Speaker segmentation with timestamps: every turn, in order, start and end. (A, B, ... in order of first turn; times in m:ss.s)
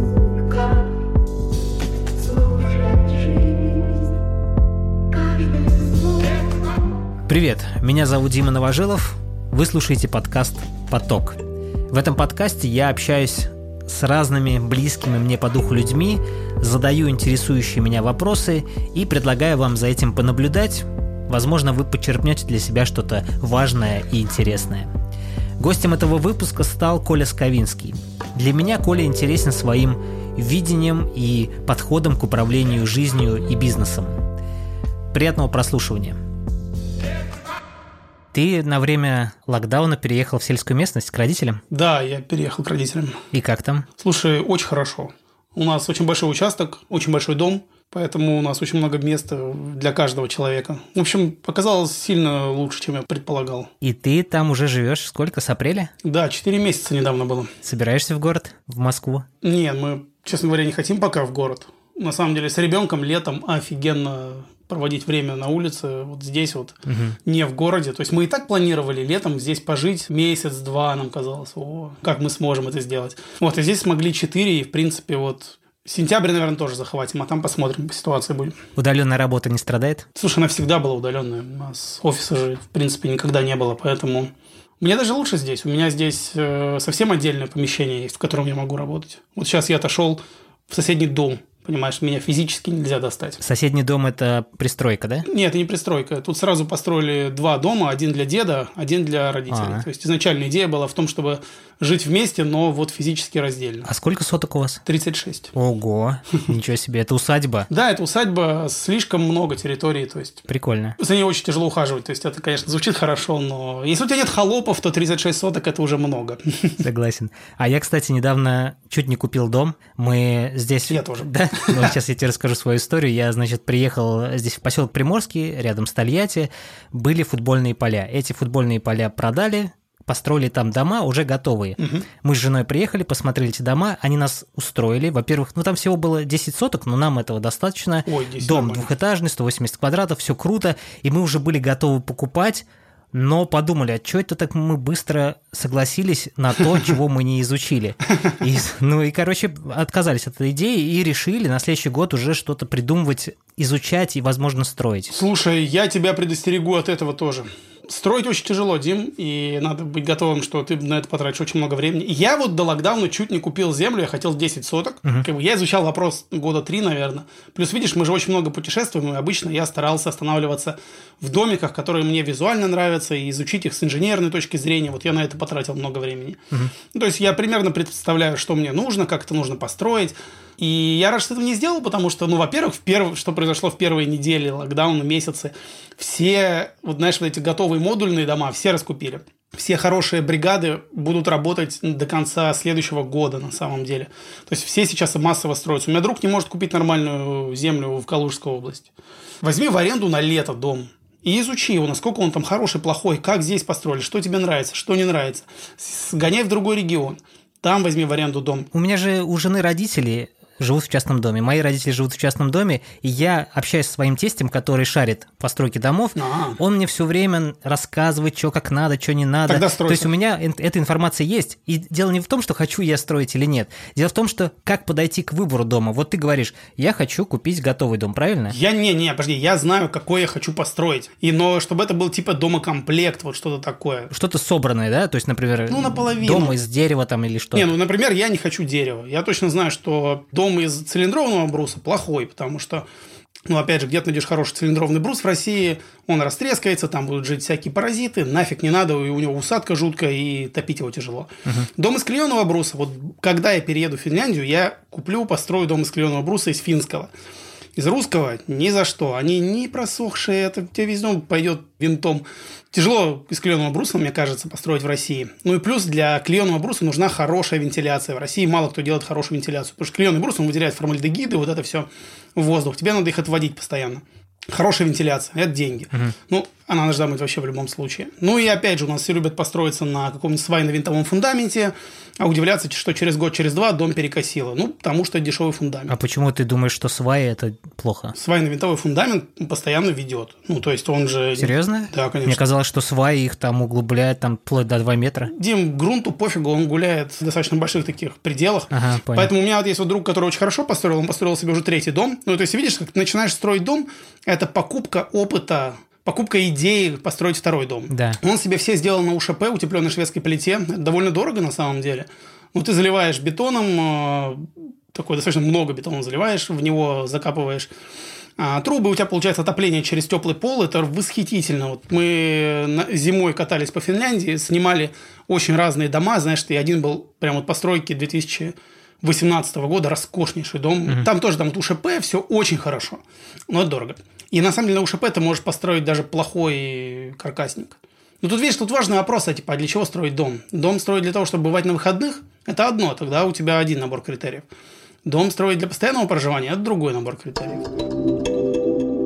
0:07.3-0:11.4 A
0:11.9-0:24.9 A
0:25.6-0:34.2 A
0:35.1-0:36.2 A
0:38.3-0:41.6 A
0:41.7-0:43.2 B
0:43.3-0:43.8 A
0:44.0-0:53.7 B
0:53.8-0:55.9 A
0:56.0-0:57.5 B
0:57.6-0:59.2 A
0:59.4-1:18.6 B
1:06.9-1:07.2 A
1:18.8-1:20.0 A
1:20.1-1:33.4 B
1:33.4-1:35.3 A
1:35.2-1:43.9 B
1:39.5-1:39.8 A
1:43.8-1:44.8 A
1:44.8-1:45.5 B
1:45.5-1:47.7 A
1:47.7-1:50.5 B
1:50.5-1:51.0 A
1:51.0-1:56.8 B
1:56.8-2:35.1 A
2:00.9-2:01.9 B
2:11.8-2:12.1 B
2:18.1-2:18.9 B
2:35.1-3:18.9 B
3:19.4-3:28.7 B
3:28.7-3:48.6 A
3:36.2-3:36.6 B
3:39.5-3:40.1 B
3:48.5-3:54.1 B
3:54.1-3:57.7 A
3:55.7-3:56.6 B
3:57.6-4:02.8 B
4:03.5-4:17.1 B
4:17.8-4:45.9 B
4:45.9-4:48.1 A
4:48.1-4:52.4 B
4:51.4-4:55.3 A
4:55.3-5:17.7 B
4:58.7-4:59.3 A
5:07.9-5:08.2 A
5:18.4-5:44.5 B
5:45.0-5:47.7 B